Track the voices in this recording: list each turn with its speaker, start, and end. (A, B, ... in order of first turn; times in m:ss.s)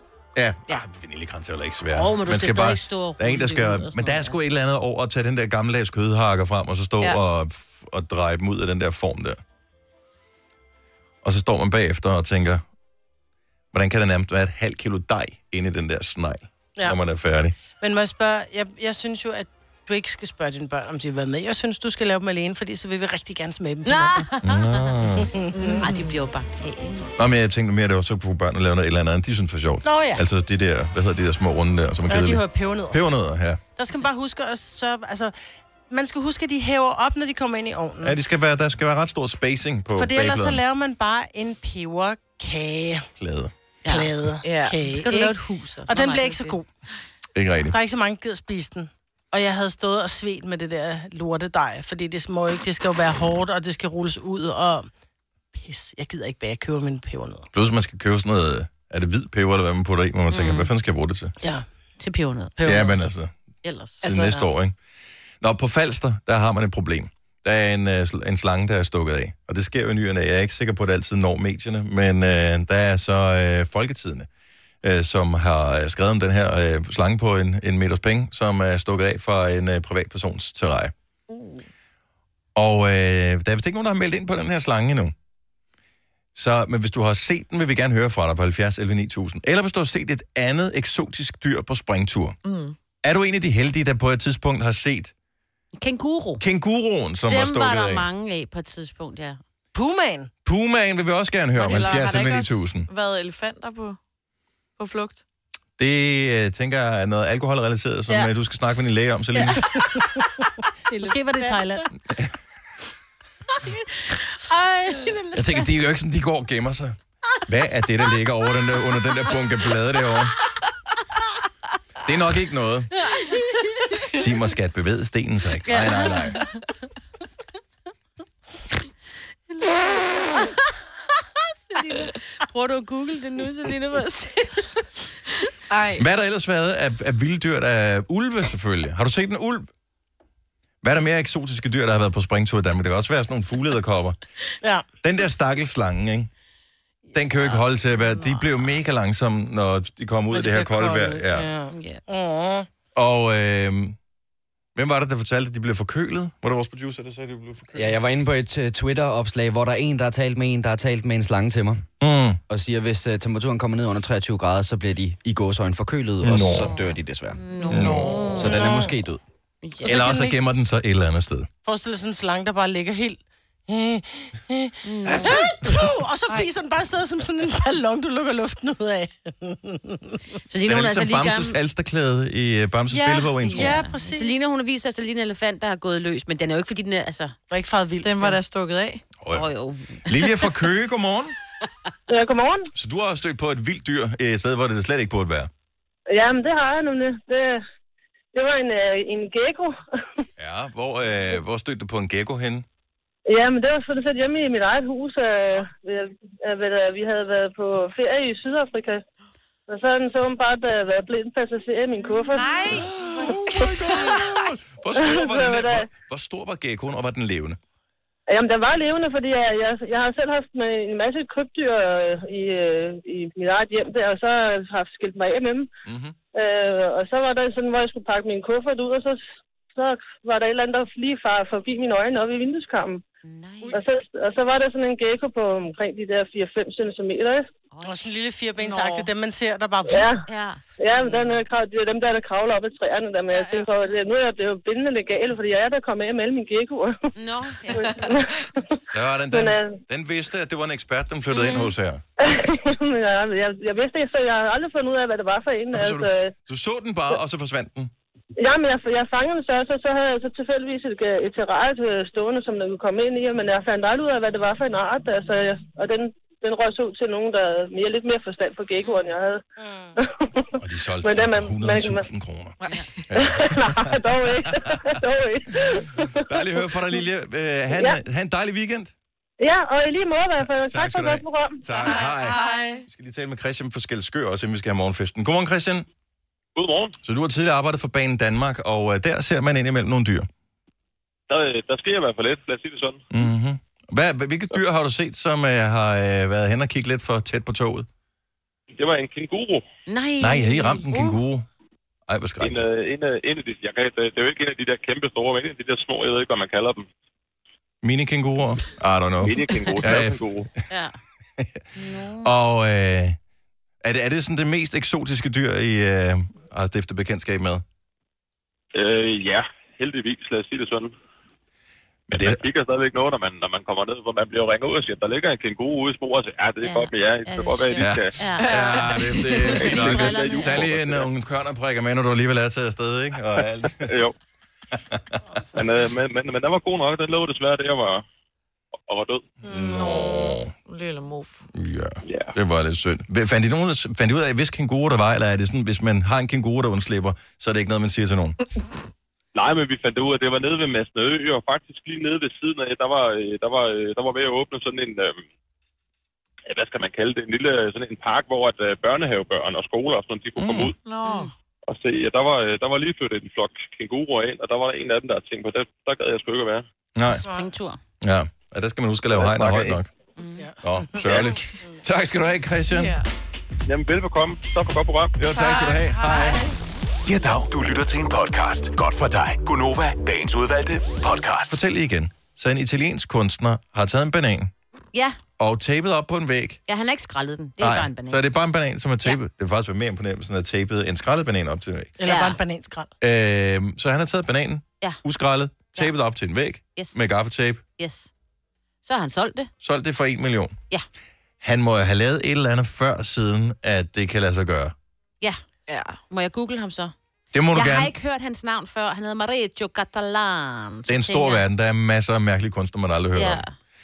0:00.4-0:09.4 A
0:01.9-0:04.4 B
0:11.2-0:12.6 A
0:13.7-0:17.6 A
0:17.8-0:24.3 C
0:23.8-0:24.8 B
0:24.4-0:25.3 A
0:25.2-0:25.8 C
0:25.5-0:26.1 D
0:25.8-0:27.1 B
0:27.2-0:33.6 A
0:29.8-0:30.2 C
0:32.1-0:33.0 C
0:33.8-0:35.3 C
0:35.9-0:38.2 C
0:38.0-0:40.6 A
0:40.0-0:43.1 C
0:43.2-0:43.5 A
0:43.8-0:44.1 B
0:43.9-0:46.7 C
0:44.4-0:44.8 D
0:44.8-0:46.6 B
0:47.4-0:47.8 A
0:47.7-0:54.9 C
0:55.5-0:57.5 C
0:57.5-1:01.3 A
1:00.3-1:00.7 B
1:02.0-1:02.8 B
1:02.6-1:03.0 C
1:02.6-1:03.3 A
1:03.6-1:04.0 B
1:04.0-1:04.8 A
1:04.0-1:04.4 D
1:05.4-1:14.3 A
1:14.8-1:20.9 A
1:22.6-1:25.1 A
1:26.4-1:32.4 A
1:32.4-1:32.8 D
1:33.0-1:35.1 A
1:35.8-1:36.4 B
1:36.4-1:38.1 A
1:37.3-1:39.4 B
1:39.7-1:40.3 C
1:40.4-1:42.9 A
1:41.6-1:44.0 D
1:44.8-1:45.2 D
1:45.8-1:49.6 A
1:49.4-1:51.8 C
1:51.0-1:51.6 B
1:54.4-1:55.5 B
1:54.9-1:55.2 C
1:55.3-2:00.4 A
2:02.0-2:02.9 A
2:03.1-2:03.9 B
2:04.1-2:06.4 A
2:05.6-2:06.5 B
2:09.6-2:10.5 B
2:11.7-2:14.9 B
2:15.7-2:16.0 D
2:16.0-2:19.7 A
2:20.8-2:24.2 A
2:25.0-2:26.3 A
2:27.1-2:31.5 A
2:30.3-2:32.7 C
2:31.7-2:32.0 B
2:33.0-2:34.0 A
2:34.8-2:38.0 A
2:37.8-2:41.8 E
2:42.0-2:42.4 A
2:42.5-2:49.2 E
2:46.2-2:46.7 A
2:46.6-2:48.7 B
2:47.6-2:48.2 D
2:47.7-2:48.2 A
2:48.4-2:49.0 C
2:49.6-2:50.4 B
2:49.8-2:51.5 A
2:51.6-3:00.2 C
2:54.8-2:55.5 B
3:00.5-3:01.6 B
3:00.7-3:03.8 A
3:02.9-3:04.5 C
3:03.5-3:07.4 B
3:07.5-3:08.4 C
3:08.0-3:09.0 D
3:09.2-3:09.5 A
3:09.3-3:10.3 B
3:10.1-3:11.4 A
3:12.1-3:12.7 F
3:12.7-3:15.5 A
3:16.1-3:17.6 F
3:18.3-3:19.8 F
3:20.4-3:22.7 A
3:23.3-3:29.0 F
3:29.7-3:32.8 F
3:32.3-3:34.3 D
3:32.7-3:37.6 A
3:34.9-3:35.9 F
3:38.3-3:45.7 F
3:45.9-3:46.2 A
3:46.3-3:53.0 F
3:53.2-3:53.8 B
3:53.7-3:57.5 F
3:57.7-3:58.1 B
3:57.8-4:00.1 C
3:58.6-3:59.1 D
3:59.9-4:00.2 F
4:00.3-4:01.5 B
4:00.8-4:06.9 F
4:07.2-4:08.1 B
4:07.7-4:08.1 D
4:07.8-4:08.4 F
4:08.9-4:12.0 A
4:09.3-4:09.8 F
4:11.3-4:11.7 B
4:12.2-4:16.3 F
4:15.7-4:17.9 A
4:18.4-4:29.4 F
4:29.6-4:30.0 C
4:30.0-4:32.1 F
4:30.6-4:32.6 A
4:32.6-4:33.0 D
4:33.1-4:34.8 A
4:33.2-4:36.4 F
4:36.3-4:38.9 A
4:37.7-4:38.0 F
4:39.4-4:41.6 F
4:40.4-4:45.9 A
4:41.8-4:42.8 D
4:46.6-4:47.0 G
4:47.0-4:50.3 A
4:51.3-4:53.0 G
4:53.1-4:57.9 A
4:58.8-4:59.6 G
4:59.9-5:01.2 B
5:00.2-5:01.5 A
5:02.1-5:02.7 A
5:02.4-5:06.9 G
5:07.8-5:10.2 A
5:09.2-5:10.5 G
5:10.7-5:11.0 B
5:11.8-5:12.3 B
5:12.2-5:13.2 A
5:13.8-5:17.6 A
5:18.7-5:20.9 G
5:22.1-5:22.4 A
5:22.1-5:28.2 G
5:26.6-5:30.7 B
5:27.8-5:33.9 A
5:28.4-5:29.5 D
5:29.6-5:31.1 G
5:33.8-5:34.1 G
5:34.9-5:35.2 A
5:35.5-5:38.0 G
5:38.9-5:39.3 G
5:39.4-5:40.5 A
5:39.5-5:39.8 C
5:39.5-5:41.5 D
5:41.5-5:48.4 A
5:42.0-5:42.4 G
5:49.4-5:55.2 G
5:56.5-6:00.8 G
6:00.4-6:00.7 A
6:00.8-6:01.3 D
6:01.0-6:01.3 B
6:01.7-6:06.6 G
6:07.0-6:07.2 A
6:07.2-6:07.5 C
6:07.2-6:07.8 B
6:08.0-6:09.9 A
6:09.2-6:09.8 G
6:10.2-6:10.5 B
6:10.4-6:11.8 C
6:10.6-6:13.0 A
6:12.7-6:13.1 D
6:13.7-6:15.2 G
6:15.2-6:16.5 A
6:15.3-6:16.4 D
6:17.1-6:21.6 H
6:21.5-6:24.5 A
6:25.4-6:26.6 A
6:26.7-6:28.2 B
6:27.6-6:31.9 A
6:32.0-6:32.9 C
6:32.0-6:32.4 B
6:33.0-6:37.6 A
6:37.8-6:38.1 B
6:38.8-6:39.5 B
6:39.6-6:40.6 A
6:41.4-6:44.7 A
6:45.7-6:46.0 D
6:46.1-6:46.9 B
6:47.3-6:47.9 A
6:47.5-6:51.4 B
6:50.9-6:53.4 A
6:53.1-6:53.5 B